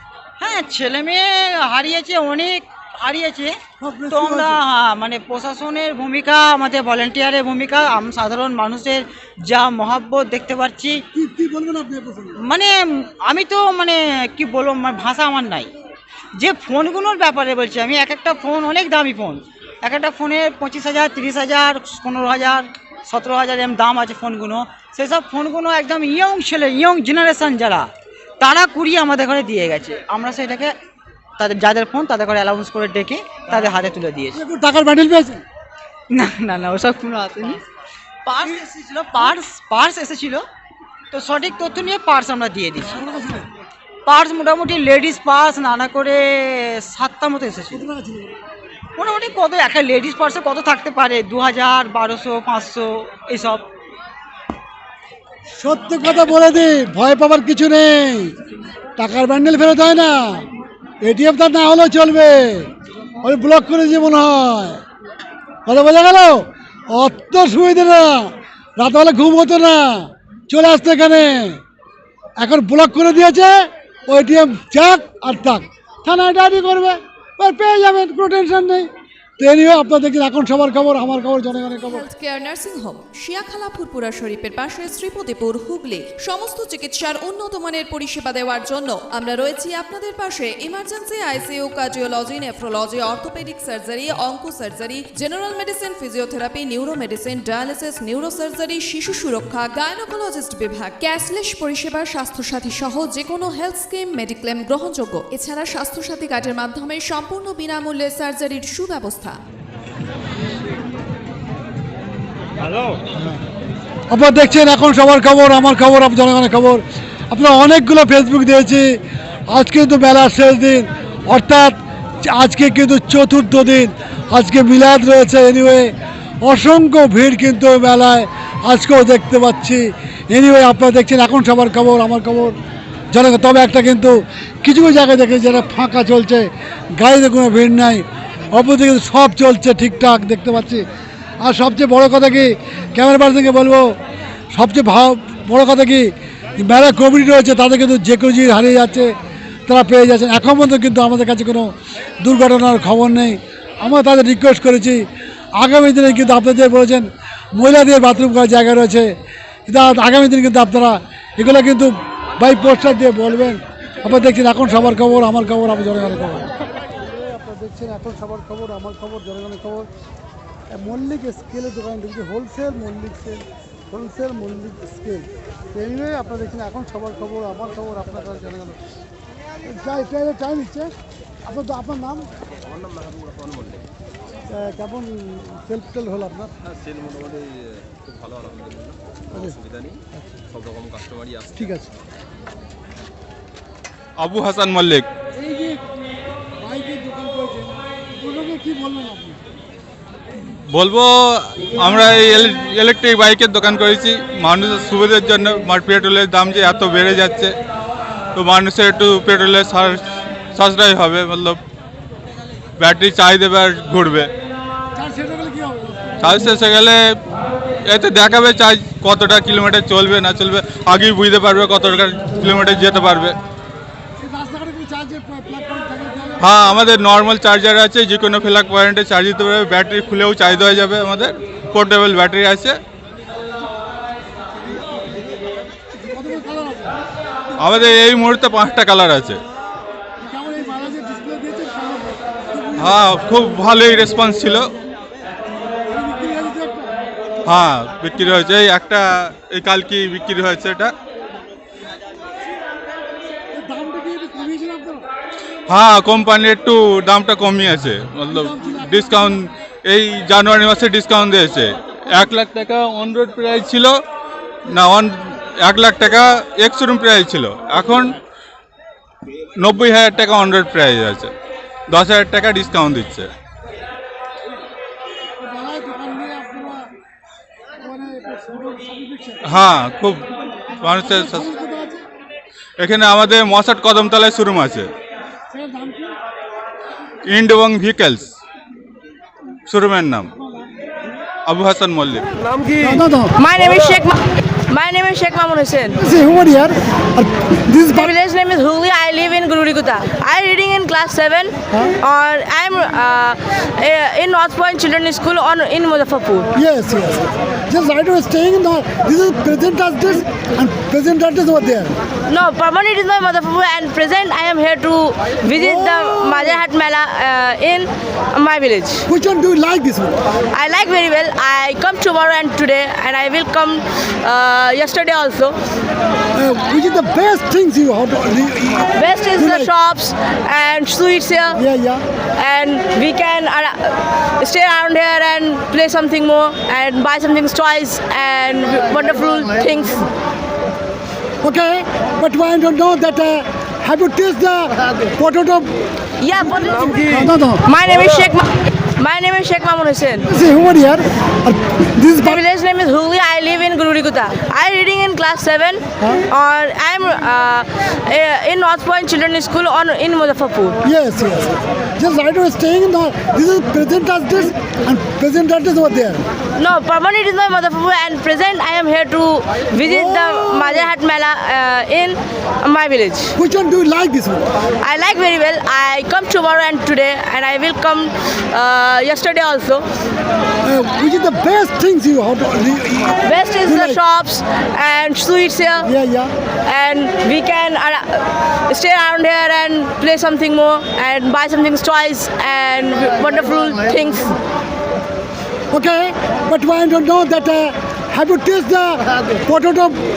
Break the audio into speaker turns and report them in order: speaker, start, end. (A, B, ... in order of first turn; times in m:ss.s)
0:00.4-0:03.6 A
0:03.8-0:04.6 B
0:04.1-0:11.0 A
0:11.1-0:12.4 B
0:12.4-0:15.7 A
0:16.3-0:30.8 A
0:31.4-0:34.4 A
0:34.3-0:35.4 B
0:36.1-0:37.6 A
0:38.2-0:40.4 A
0:41.1-0:43.0 A
0:43.0-0:43.5 B
0:44.0-0:47.8 A
0:47.7-0:48.3 B
0:49.0-0:53.7 A
0:55.6-0:58.3 B
0:59.0-1:00.4 B
1:01.0-1:02.7 B
1:03.2-1:04.8 B
1:05.7-1:11.6 B
1:12.4-1:22.1 B
1:21.8-1:49.4 C
1:54.1-1:59.0 B
1:59.5-2:05.9 B
2:06.4-2:12.5 B
2:13.1-2:20.8 B
2:21.4-2:24.0 B
2:24.5-2:29.1 B
2:29.7-2:35.0 B
2:35.6-2:39.1 B
2:39.7-2:46.4 B
2:47.1-2:49.9 B
2:50.7-2:58.8 B
2:59.6-3:00.9 B
3:01.4-3:02.3 B
3:02.8-3:03.8 D
3:04.5-3:06.5 B
3:06.8-3:09.0 D
3:09.3-3:09.6 B
3:09.7-3:09.9 D
3:10.8-3:11.5 D
3:11.5-3:11.9 B
3:14.2-3:15.1 E
3:15.4-3:15.8 B
3:16.6-3:19.4 B
3:20.7-3:27.5 E
3:28.3-3:30.0 E
3:30.5-3:31.6 E
3:32.8-3:34.3 E
3:35.0-3:36.4 B
3:36.2-3:37.0 E
3:37.9-3:43.4 E
3:44.2-3:46.4 B
3:46.4-3:52.8 E
3:56.0-3:56.9 B
3:57.6-3:59.4 E
4:00.2-4:03.0 B
4:02.8-4:04.7 E
4:05.9-4:06.9 B
4:07.4-4:10.9 E
4:13.5-4:15.0 B
4:15.7-4:23.9 E
4:18.3-4:19.4 B
4:24.7-4:28.1 E
4:29.6-4:31.3 E
4:31.9-4:33.3 E
4:35.4-4:36.8 B
4:37.8-4:39.4 B
4:39.5-4:40.2 E
4:40.8-4:41.5 E
4:40.9-4:42.0 B
4:42.8-4:44.9 E
4:45.5-4:46.1 B
4:47.3-4:48.4 E
4:49.7-4:50.3 E
4:51.4-4:52.2 E
4:52.8-4:53.3 B
4:53.4-4:54.2 F
4:54.7-4:56.0 F
4:55.9-4:58.1 B
4:58.0-5:06.5 F
5:06.6-5:11.9 B
5:12.3-5:19.0 F
5:15.5-5:16.6 B
5:19.1-5:20.2 B
5:20.5-5:25.5 F
5:26.3-5:29.7 B
5:29.0-5:31.6 F
5:31.5-5:32.0 B
5:32.4-5:40.1 F
5:41.4-5:45.7 B
5:46.2-5:47.1 F
5:46.3-5:47.6 B
5:47.6-5:48.4 F
5:49.0-5:50.3 F
5:50.3-5:52.4 B
5:52.2-6:00.8 F
6:00.8-6:06.2 B
6:06.6-6:13.3 F
6:09.8-6:10.9 B
6:13.4-6:14.5 B
6:14.8-6:19.8 F
6:20.6-6:24.0 B
6:23.2-6:25.8 F
6:25.8-6:26.3 B
6:26.7-6:34.3 F
6:35.7-6:40.0 B